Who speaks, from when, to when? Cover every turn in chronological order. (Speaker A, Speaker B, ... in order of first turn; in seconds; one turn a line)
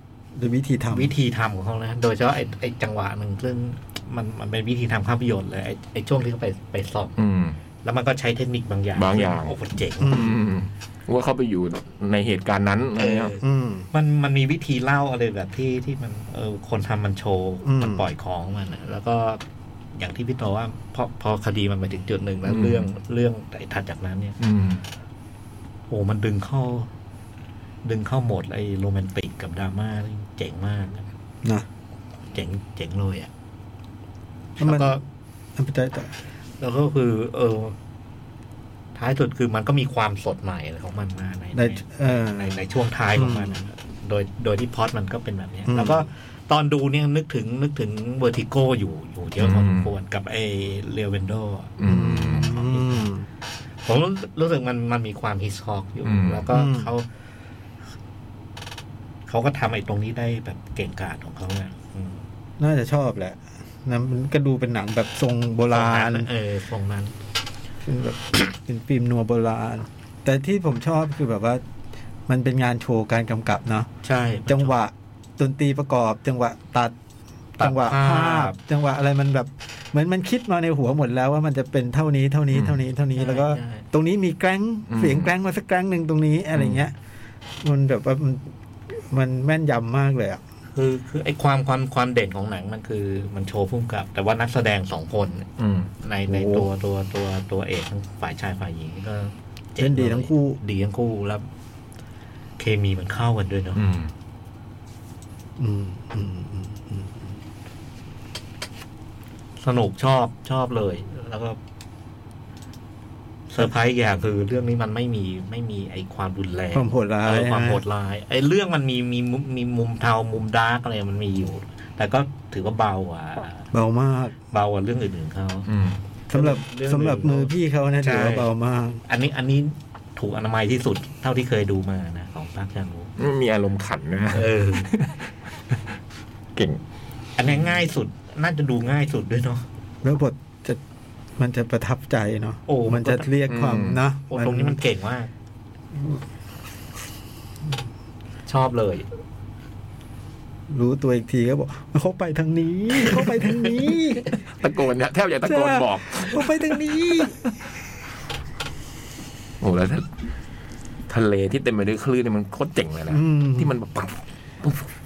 Speaker A: 0.3-1.1
Speaker B: 0.9-7.1
Speaker C: 7.2-7.6
Speaker B: 7.8-10.3
Speaker C: 8.9-13.3
Speaker A: 10.0-10.4
Speaker B: 12.9-19.4
Speaker A: 13.4-13.9
Speaker A: 17.6-18.1
Speaker B: 19.9-24.4
Speaker C: 22.4-22.9
Speaker C: 24.4-24.8
Speaker B: 25.9-26.9
Speaker B: 27.8-31.1
Speaker B: 32.3-33.3
Speaker B: 34.6-35.0
Speaker A: 34.6-35.0
Speaker A: 35.5-36.1
Speaker B: 36.6-37.8
Speaker B: 38.9-53.1
Speaker A: 41.5-42.6
Speaker A: 43.1-43.6
Speaker A: 45.6-46.1
Speaker C: 49.4-49.9
Speaker C: 51.8-52.6
Speaker A: 51.9-53.3
Speaker B: 53.8-57.1
Speaker C: 56.0-56.5
Speaker A: 56.5-56.9
Speaker B: 59.3-62.2
Speaker A: 62.6-66.3
Speaker B: 65.7-67.1
Speaker A: 67.8-71.6
Speaker A: 72.3-73.9
Speaker B: 74.0-74.7
Speaker A: 74.5-76.9
Speaker A: 77.6-86.9
Speaker B: 77.6-78.5
Speaker C: 82.5-82.8
Speaker B: 83.1-83.8
Speaker C: 84.9-85.3
Speaker C: 86.5-86.9
Speaker A: 87.6-90.4
Speaker B: 90.7-101.5
Speaker C: 95.6-95.9
Speaker A: 96.3-96.7
Speaker A: 99.8-100.6
Speaker B: 102.6-103.8
Speaker C: 103.7-104.1
Speaker A: 105.6-107.2
Speaker B: 109.6-111.6
Speaker B: 113.5-123.7
Speaker A: 116.7-117.8
Speaker A: 123.7-124.3
Speaker B: 124.5-125.7
Speaker C: 125.7-126.0
Speaker B: 126.3-128.5
Speaker A: 126.3-129.0
Speaker B: 129.1-133.1
Speaker C: 133.2-135.8
Speaker B: 134.3-134.9
Speaker B: 137.4-139.6
Speaker A: 140.0-140.8
Speaker A: 141.4-144.8
Speaker B: 142.7-143.3
Speaker C: 143.5-144.0
Speaker B: 144.3-145.3
Speaker B: 148.5-149.1
Speaker A: 150.7-154.3
Speaker C: 154.6-156.8
Speaker A: 155.4-157.5
Speaker C: 159.6-160.1
Speaker C: 161.1-164.8
Speaker A: 163.1-163.7